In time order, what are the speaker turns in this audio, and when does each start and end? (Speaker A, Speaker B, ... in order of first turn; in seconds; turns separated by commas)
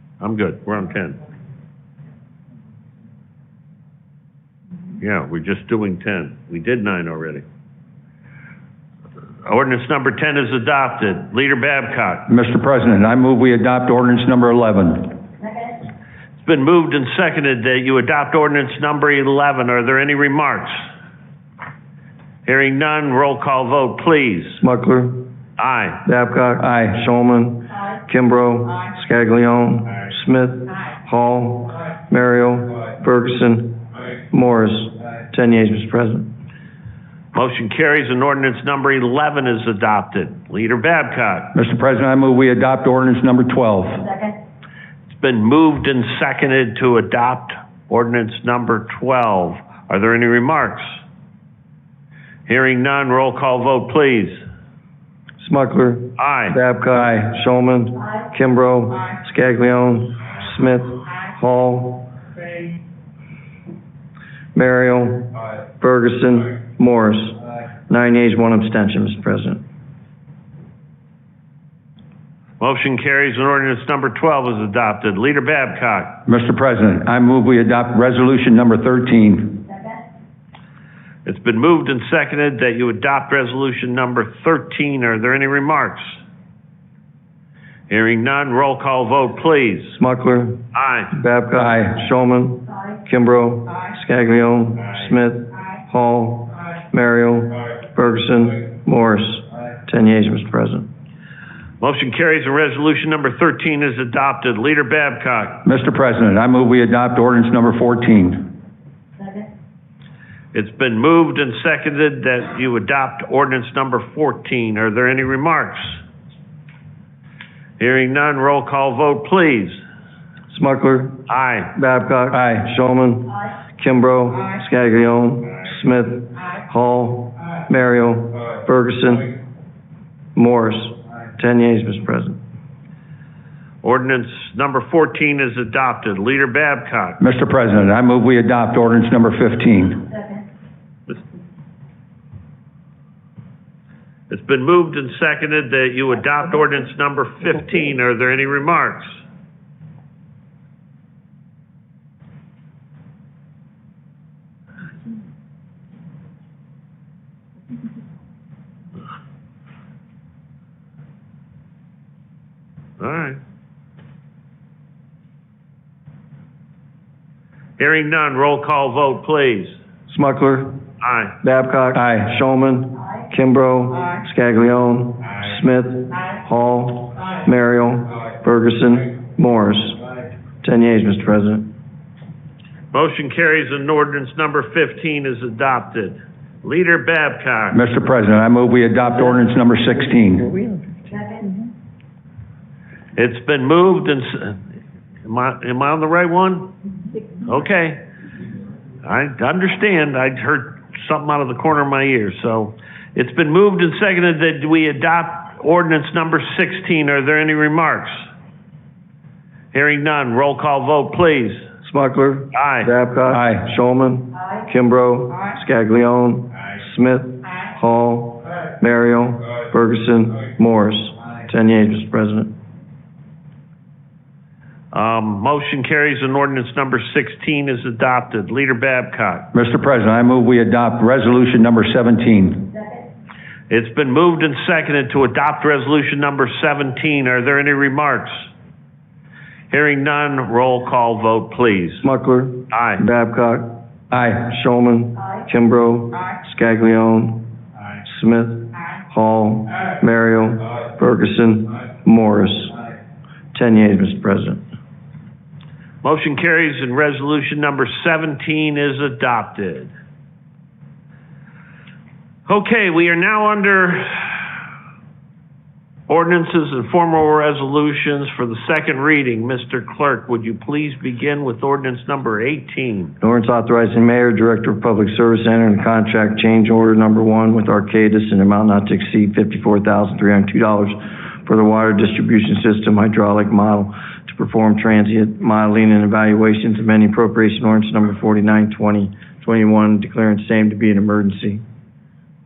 Speaker A: 0.2-1.2, Speaker A: 5.0-7.4, Speaker A: 9.4-12.3, Speaker B: 12.3-15.2, Speaker A: 16.4-20.8, Speaker A: 22.4-24.6, Speaker C: 24.6-25.3, Speaker A: 25.6-26.0, Speaker C: 26.0-36.3, Speaker B: 26.6-27.0, Speaker A: 37.3-41.5, Speaker B: 41.5-44.1, Speaker A: 45.1-50.9, Speaker A: 52.5-54.4, Speaker C: 55.4-62.1, Speaker A: 56.2-56.6, Speaker B: 56.9-57.2, Speaker C: 64.5-69.6, Speaker A: 72.6-76.2, Speaker B: 76.2-79.7, Speaker A: 81.2-86.1, Speaker A: 87.9-90.0, Speaker C: 90.0-100.9, Speaker A: 90.7-91.1, Speaker B: 91.5-91.9, Speaker A: 101.8-105.6, Speaker B: 105.6-108.5, Speaker A: 110.5-116.0, Speaker A: 117.8-119.8, Speaker C: 120.5-129.3, Speaker A: 121.3-121.7, Speaker B: 122.3-122.7, Speaker C: 130.3-132.4, Speaker A: 133.8-137.2, Speaker B: 137.2-140.1, Speaker A: 144.3-149.1, Speaker A: 163.0-163.4, Speaker A: 167.8-169.7, Speaker C: 170.1-170.8, Speaker A: 171.0-171.3, Speaker C: 171.4-180.0, Speaker B: 171.9-172.3, Speaker C: 180.6-181.7, Speaker A: 182.9-187.8, Speaker B: 187.7-190.5, Speaker C: 190.4-191.5, Speaker A: 193.2-194.6, Speaker A: 195.2-196.7, Speaker A: 197.4-198.0, Speaker A: 199.0-208.2, Speaker A: 209.7-211.6, Speaker C: 211.8-222.5, Speaker A: 212.5-212.9, Speaker B: 213.3-213.6, Speaker A: 224.9-229.5, Speaker B: 229.5-232.7, Speaker A: 233.7-238.4, Speaker A: 239.7-242.0, Speaker C: 242.0-243.8, Speaker A: 242.7-243.0, Speaker B: 244.1-244.4, Speaker C: 244.3-247.5, Speaker C: 248.1-252.8, Speaker C: 253.5-254.6, Speaker A: 256.0-259.9, Speaker A: 262.4-264.4, Speaker A: 266.1-273.1, Speaker C: 273.2-291.6